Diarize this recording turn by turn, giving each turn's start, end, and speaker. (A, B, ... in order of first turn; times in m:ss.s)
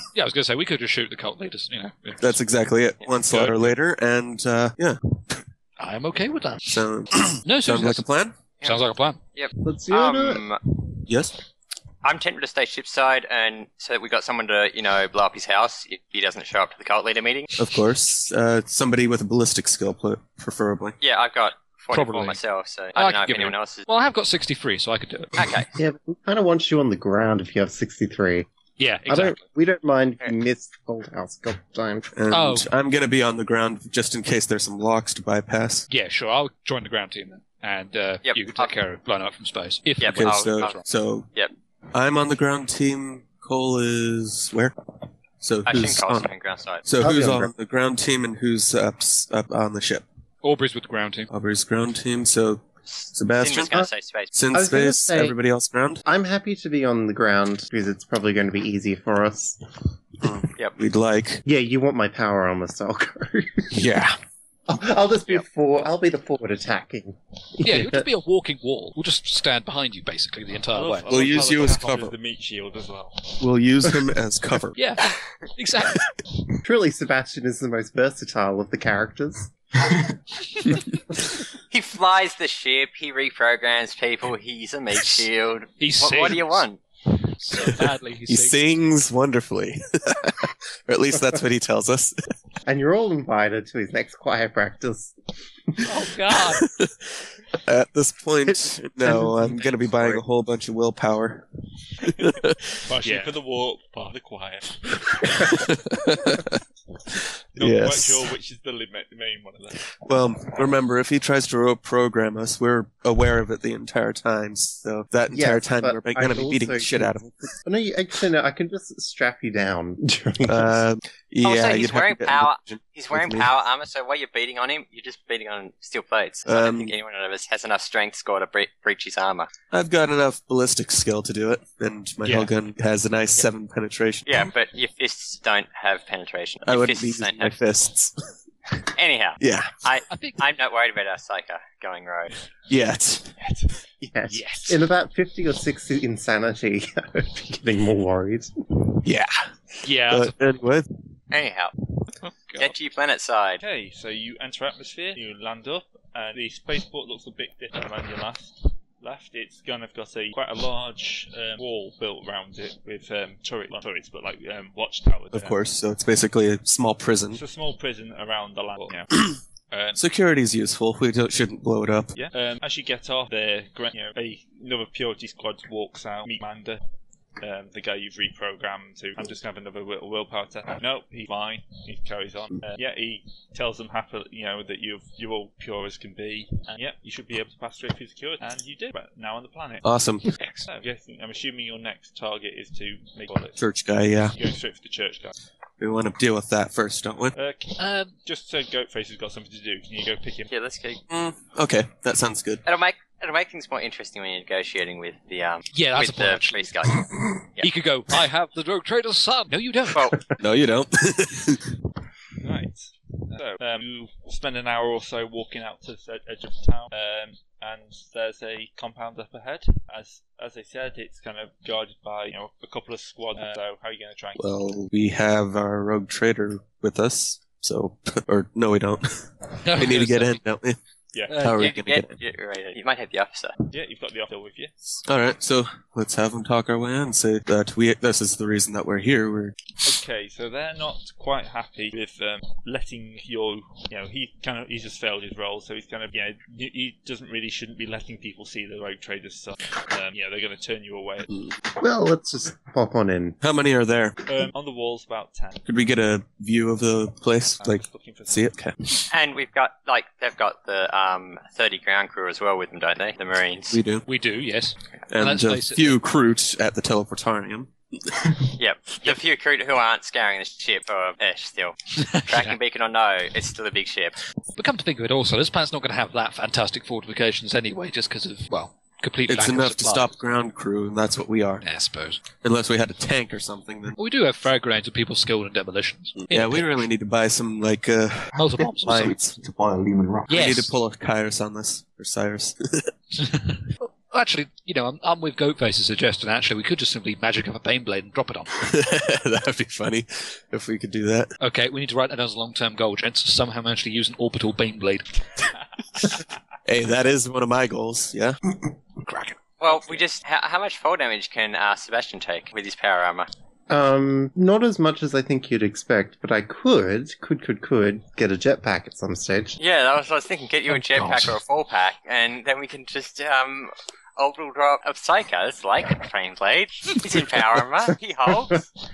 0:00.1-0:02.4 A
0:02.2-0:05.0 B
0:03.3-0:03.7 C
0:05.8-0:06.8 A
0:06.6-0:08.4 B
0:07.4-0:08.1 A
0:08.6-0:09.2 A
0:09.3-0:10.6 D
0:09.6-0:10.4 E
0:11.1-0:11.3 B
0:12.0-0:17.5 D
0:17.6-0:21.0 B
0:21.0-0:23.8 D
0:21.9-0:22.4 A
0:22.9-0:25.5 A
0:25.4-0:25.7 D
0:25.8-0:28.5 E
0:28.8-0:29.4 A
0:29.1-0:32.1 E
0:32.1-0:35.8 B
0:32.3-0:32.7 A
0:35.9-0:40.8 A
0:38.2-0:38.7 D
0:40.0-0:40.8 D
0:40.1-0:41.3 B
0:41.9-0:44.7 B
0:45.4-0:46.3 B
0:45.6-0:46.8 D
0:46.8-0:50.0 B
0:47.0-0:47.5 E
0:50.4-0:51.3 A
0:51.3-0:56.0 B
0:53.4-0:54.3 D
0:54.5-0:55.3 E
0:56.0-0:59.6 E
1:00.2-1:01.4 B
1:01.4-1:03.8 E
1:03.7-1:04.2 B
1:04.7-1:08.0 E
1:07.6-1:11.5 A
1:10.7-1:13.4 C
1:11.1-1:12.1 B
1:13.4-1:14.8 B
1:14.8-1:16.0 A
1:16.6-1:19.5 E
1:21.7-1:26.8 D
1:25.8-1:26.6 A
1:27.3-1:28.6 A
1:28.3-1:32.2 B
1:32.6-1:35.1 E
1:35.8-1:36.6 A
1:36.6-1:41.4 B
1:39.0-1:40.2 E
1:42.0-1:42.8 B
1:42.8-1:45.2 C
1:43.0-1:43.3 A
1:45.3-1:46.6 B
1:47.1-1:48.3 B
1:47.6-1:49.9 C
1:50.0-1:57.4 B
1:55.3-2:00.8 E
2:00.4-2:03.5 B
2:01.4-2:09.5 D
2:06.4-2:06.9 B
2:09.7-2:14.4 B
2:12.2-2:12.5 A
2:14.2-2:17.6 D
2:16.6-2:18.2 B
2:18.9-2:22.3 D
2:19.4-2:19.8 B
2:20.1-2:20.4 A
2:22.7-2:23.3 B
2:23.4-2:23.7 C
2:24.0-2:28.5 E
2:24.3-2:24.8 A
2:29.0-2:30.9 B
2:29.8-2:30.4 A
2:31.3-2:31.7 D
2:32.3-2:32.7 A
2:32.6-2:33.6 D
2:33.6-2:45.6 C
2:45.3-2:47.4 B
2:47.3-2:50.0 C
2:50.0-2:52.1 B
2:52.2-2:56.8 C
2:57.4-3:09.9 C
3:09.8-3:10.3 B
3:10.7-3:13.6 C
3:13.6-3:14.4 B
3:14.3-3:15.3 C
3:15.8-3:17.3 B
3:17.3-3:20.5 C
3:17.8-3:18.1 A
3:20.5-3:21.0 D
3:21.1-3:22.6 B
3:22.6-3:27.7 D
3:25.7-3:26.7 A
3:27.6-3:30.2 A
3:29.9-3:30.2 D
3:30.4-3:31.7 B
3:32.4-3:44.5 C
3:44.4-3:50.8 B
3:49.6-3:50.4 A
3:51.1-3:51.4 C
3:51.3-3:51.7 A
3:51.4-3:52.2 B
3:51.5-3:53.5 D
3:53.7-3:55.0 C
3:55.0-3:59.6 B
3:59.8-4:11.3 C
4:11.8-4:13.4 E
4:13.4-4:14.2 B
4:14.2-4:15.6 C
4:15.6-4:18.8 B
4:17.6-4:18.4 C
4:19.1-4:23.8 D
4:23.7-4:24.0 B
4:24.0-4:26.0 A
4:25.1-4:28.2 B
4:28.6-4:31.8 D
4:32.0-4:32.6 A
4:32.3-4:34.2 D
4:34.6-4:40.1 A
4:39.3-4:41.6 B
4:41.6-4:42.2 A
4:42.4-4:44.0 B
4:44.0-4:46.8 A
4:46.3-4:49.3 B
4:48.3-4:49.2 A
4:48.4-4:50.5 F
4:50.3-4:50.7 A
4:50.3-4:52.9 B
4:53.1-4:58.6 A
4:58.6-5:01.3 B
5:01.4-5:05.1 A
5:06.6-5:08.4 B
5:09.0-5:09.4 A
5:09.6-5:13.3 D
5:13.7-5:19.6 E
5:19.6-5:28.6 D
5:20.9-5:21.4 F